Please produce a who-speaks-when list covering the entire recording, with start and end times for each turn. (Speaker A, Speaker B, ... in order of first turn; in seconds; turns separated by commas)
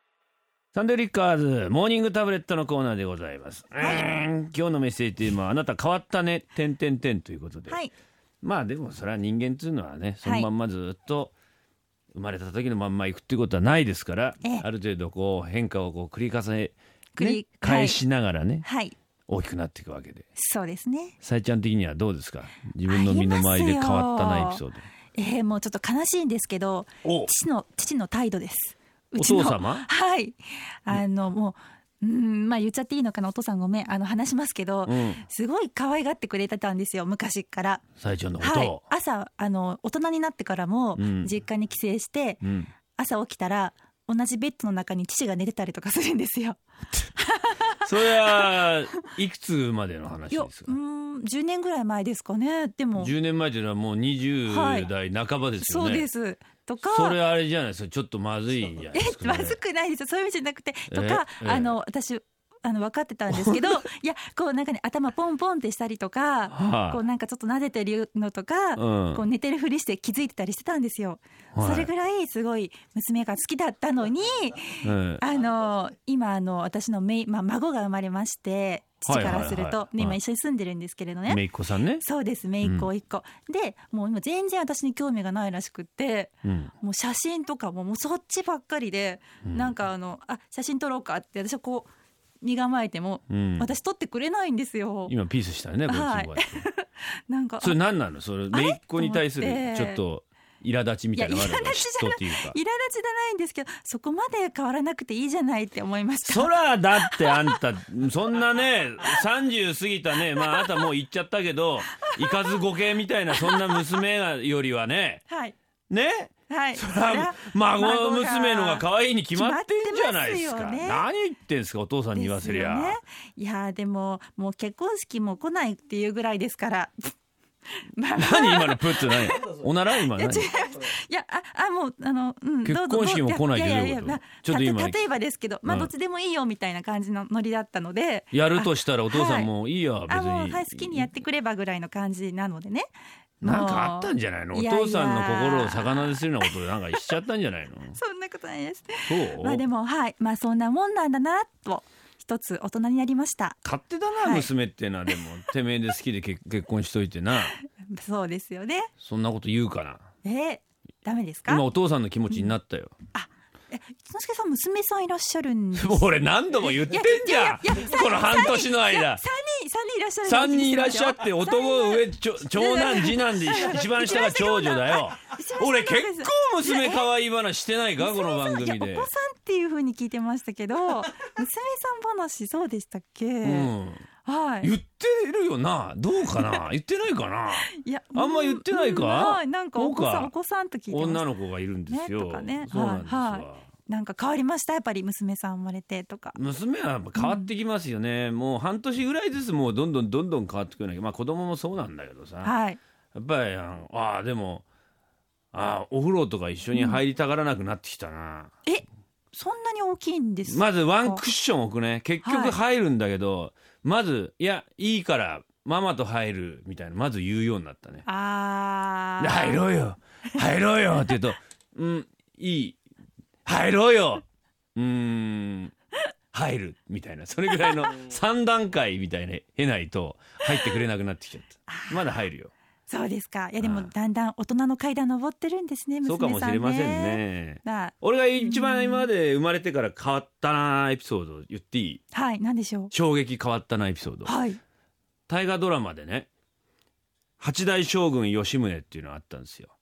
Speaker A: 0.7-7.8, Speaker B: 3.8-4.1, Speaker A: 8.4-11.3, Speaker B: 10.2-10.5, Speaker A: 12.1-18.6, Speaker B: 17.1-18.0, Speaker B: 18.6-18.9, Speaker A: 19.3-20.2, Speaker B: 20.4-21.1, Speaker A: 21.2-24.9, Speaker B: 22.9-24.6, Speaker B: 25.1-37.8, Speaker A: 27.0-27.3, Speaker A: 29.1-29.9, Speaker A: 34.9-35.2, Speaker A: 38.0-38.8, Speaker B: 38.4-42.4, Speaker A: 41.0-41.3, Speaker A: 42.4-42.7, Speaker B: 42.9-46.6, Speaker B: 47.1-48.5, Speaker A: 47.8-50.8, Speaker B: 50.3-53.1, Speaker A: 53.0-56.0, Speaker B: 54.5-54.9, Speaker B: 55.6-57.2, Speaker A: 56.9-59.6, Speaker B: 58.9-81.4, Speaker A: 60.9-61.7, Speaker A: 63.3-63.8, Speaker A: 66.5-67.0, Speaker A: 68.8-69.2, Speaker A: 71.5-71.9, Speaker A: 74.8-75.2, Speaker A: 79.0-80.2, Speaker A: 81.3-82.0, Speaker B: 82.0-91.9, Speaker A: 82.6-82.9, Speaker A: 86.4-86.7, Speaker A: 89.4-89.7, Speaker B: 92.4-95.1, Speaker A: 93.3-93.7, Speaker A: 95.0-96.6, Speaker B: 95.9-97.8, Speaker A: 97.6-102.6, Speaker B: 98.5-100.0, Speaker B: 101.1-107.5, Speaker A: 106.2-115.2, Speaker B: 110.4-110.7, Speaker B: 113.4-113.8, Speaker B: 115.3-115.5, Speaker A: 115.9-123.0, Speaker B: 116.5-121.0, Speaker B: 122.1-127.1, Speaker B: 127.8-139.5, Speaker A: 128.2-130.5, Speaker A: 132.6-135.0, Speaker A: 135.6-135.9, Speaker A: 138.3-141.1, Speaker B: 140.1-147.0, Speaker A: 143.4-148.0, Speaker B: 147.9-153.6, Speaker A: 149.1-149.6, Speaker A: 153.6-157.5, Speaker B: 154.2-154.5, Speaker B: 157.5-158.9, Speaker A: 159.0-160.0, Speaker B: 160.2-161.6, Speaker A: 161.5-162.9, Speaker B: 163.1-177.1, Speaker A: 165.8-169.2, Speaker A: 170.2-179.1, Speaker B: 178.0-183.7, Speaker A: 183.4-184.1, Speaker B: 184.2-184.7, Speaker A: 184.6-190.3, Speaker B: 186.3-186.6, Speaker B: 187.6-191.2, Speaker A: 190.9-193.7, Speaker B: 191.9-196.4, Speaker A: 196.3-202.5, Speaker B: 197.2-197.5, Speaker B: 202.4-202.8, Speaker A: 203.1-204.6, Speaker A: 205.5-208.5, Speaker B: 206.7-207.0, Speaker B: 208.7-211.2, Speaker A: 210.5-218.1, Speaker B: 212.2-212.6, Speaker B: 218.1-219.6, Speaker A: 219.2-222.8, Speaker A: 223.4-224.2, Speaker A: 224.8-225.7, Speaker A: 226.3-232.5, Speaker B: 231.7-232.0, Speaker B: 232.9-239.1, Speaker A: 233.6-233.9, Speaker A: 236.0-242.0, Speaker B: 242.1-242.9, Speaker A: 242.9-244.3, Speaker B: 244.2-244.6, Speaker A: 245.3-246.3, Speaker A: 247.4-249.7